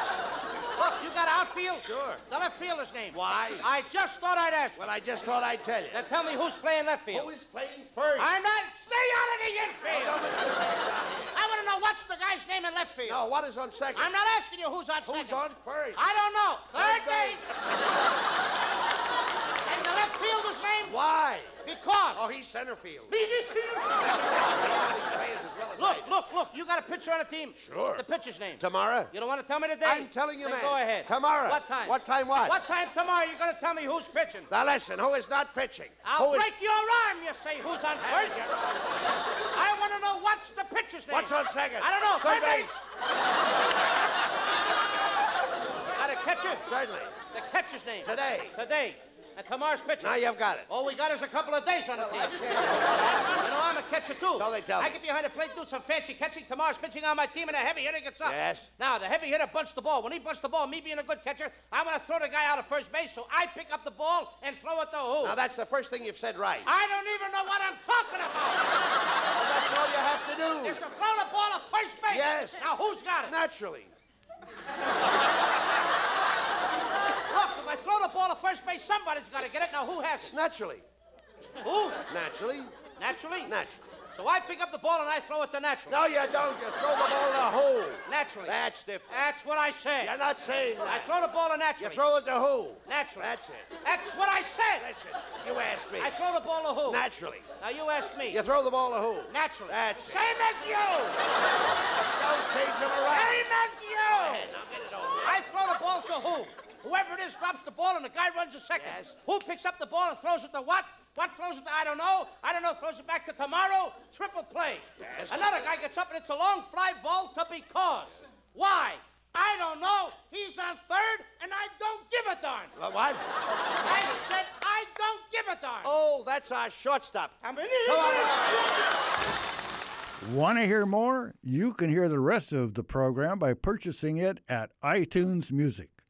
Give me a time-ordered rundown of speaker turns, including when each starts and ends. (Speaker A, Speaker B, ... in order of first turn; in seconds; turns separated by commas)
Speaker A: 0.8-4.8, Speaker B: 1.9-2.2, Speaker B: 3.1-3.7, Speaker B: 4.8-6.0, Speaker A: 5.9-7.3, Speaker B: 7.1-8.4, Speaker A: 8.2-10.3, Speaker B: 9.9-11.3, Speaker A: 11.3-13.2, Speaker B: 13.1-14.1, Speaker A: 13.9-15.4, Speaker B: 15.1-16.1, Speaker A: 16.0-17.5, Speaker B: 16.7-17.4, Speaker A: 19.7-20.9, Speaker B: 20.9-21.5, Speaker A: 21.6-22.3, Speaker B: 22.1-23.1, Speaker A: 23.1-24.5, Speaker B: 24.5-26.1, Speaker A: 25.8-34.5, Speaker B: 27.6-28.0, Speaker B: 28.6-29.1, Speaker B: 29.8-32.6, Speaker B: 34.5-36.5, Speaker A: 36.0-38.5, Speaker B: 38.1-38.6, Speaker A: 39.5-42.8, Speaker B: 41.1-42.9, Speaker A: 46.0-46.7, Speaker B: 46.6-47.1, Speaker A: 47.3-52.4, Speaker B: 48.0-48.5, Speaker B: 50.0-50.7, Speaker B: 52.0-53.1, Speaker A: 53.1-65.4, Speaker B: 54.4-55.0, Speaker B: 58.2-58.7, Speaker B: 65.2-66.7, Speaker A: 66.7-68.8, Speaker B: 69.3-70.8, Speaker A: 70.6-73.3, Speaker B: 72.1-72.6, Speaker B: 73.2-73.9, Speaker A: 77.2-80.3, Speaker B: 80.3-80.8, Speaker A: 81.6-82.0, Speaker B: 82.1-82.7, Speaker A: 83.0-83.5, Speaker B: 83.5-83.8, Speaker A: 84.1-86.0, Speaker B: 85.9-89.2, Speaker A: 88.1-88.6, Speaker A: 89.1-90.1, Speaker B: 90.0-91.1, Speaker A: 90.8-92.0, Speaker B: 91.8-93.7, Speaker A: 92.9-94.9, Speaker B: 94.8-96.1, Speaker A: 96.0-97.0, Speaker B: 96.9-97.5, Speaker A: 97.6-98.4, Speaker B: 98.3-100.3, Speaker A: 99.3-101.2, Speaker B: 102.0-103.5, Speaker A: 103.0-104.5, Speaker B: 104.1-105.3, Speaker A: 105.2-122.7, Speaker B: 108.8-109.2, Speaker B: 115.0-115.6, Speaker B: 122.8-123.2, Speaker A: 123.8-125.9, Speaker B: 125.8-127.3, Speaker A: 127.4-128.5, Speaker C: 130.2-135.9